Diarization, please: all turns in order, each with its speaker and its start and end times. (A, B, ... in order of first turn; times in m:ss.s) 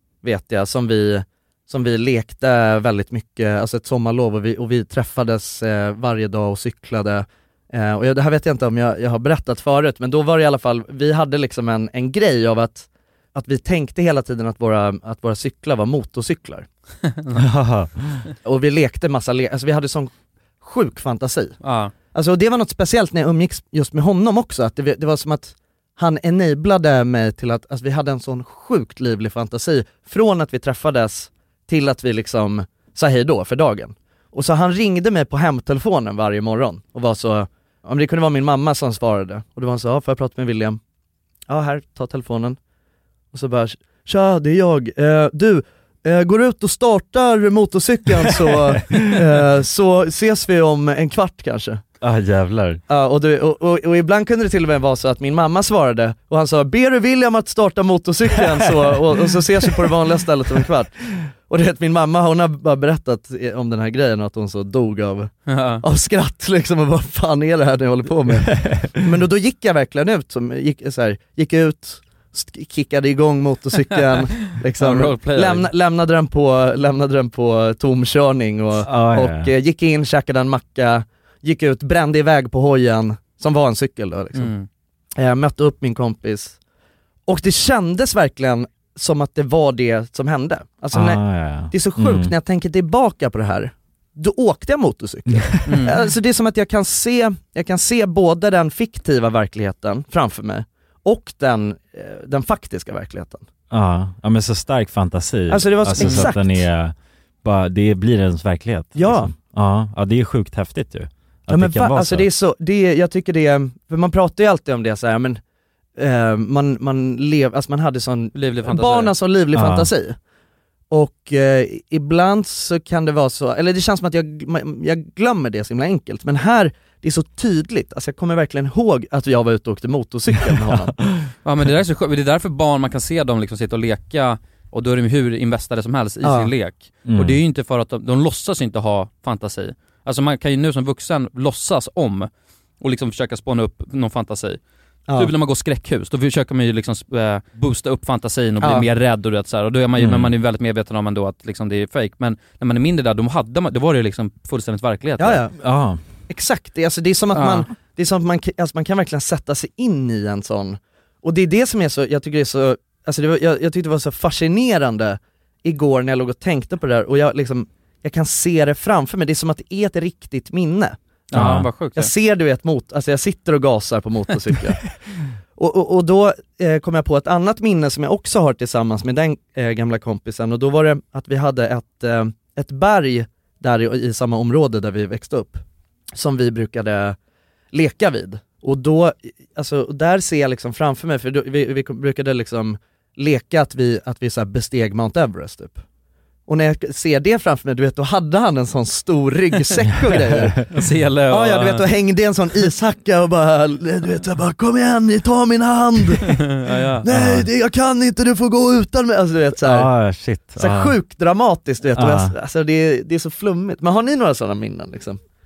0:00.2-0:16.7 A
0:17.1-0:17.4 B
0:17.4-0:18.2 C
0:18.4-0:21.6 A
0:21.6-0:21.9 B
0:22.1-0:40.8 A
0:41.5-0:42.6 A
0:43.3-0:51.8 A
0:52.0-0:52.8 C
0:52.9-1:00.9 A
1:01.5-1:24.5 A
1:05.5-1:05.8 B
1:14.8-1:15.7 B
1:18.8-1:19.5 C
1:24.4-1:24.7 B
1:25.2-1:26.6 A
1:27.3-1:43.5 A
1:30.9-1:32.3 C
1:35.6-1:36.0 B
1:43.7-1:52.3 C
1:45.5-1:46.6 A
1:46.0-1:46.3 B
1:49.0-1:49.3 A
1:51.5-1:55.4 A
1:56.0-2:00.2 A
1:58.3-1:59.1 B
1:59.5-1:59.9 C
2:00.9-2:11.0 A
2:10.6-2:11.3 C
2:11.4-2:22.3 B
2:16.2-2:16.5 A
2:17.0-2:17.4 C
2:22.8-2:24.6 B
2:25.2-2:35.4 B
2:30.0-2:30.3 C
2:35.2-2:35.5 A
2:35.6-2:36.0 C
2:36.3-2:51.0 A
2:37.3-2:37.7 B
2:51.3-2:52.1 B
2:51.3-2:51.7 C
2:52.0-2:54.8 A
2:55.6-3:07.2 A
3:07.7-3:15.8 A
3:16.5-3:20.6 A
3:20.1-3:20.6 C
3:20.7-3:21.8 B
3:21.3-3:26.5 A
3:26.5-3:27.0 B
3:27.0-3:29.9 A
3:27.1-3:27.5 C
3:29.6-3:31.0 C
3:30.6-3:35.2 A
3:32.0-3:32.3 C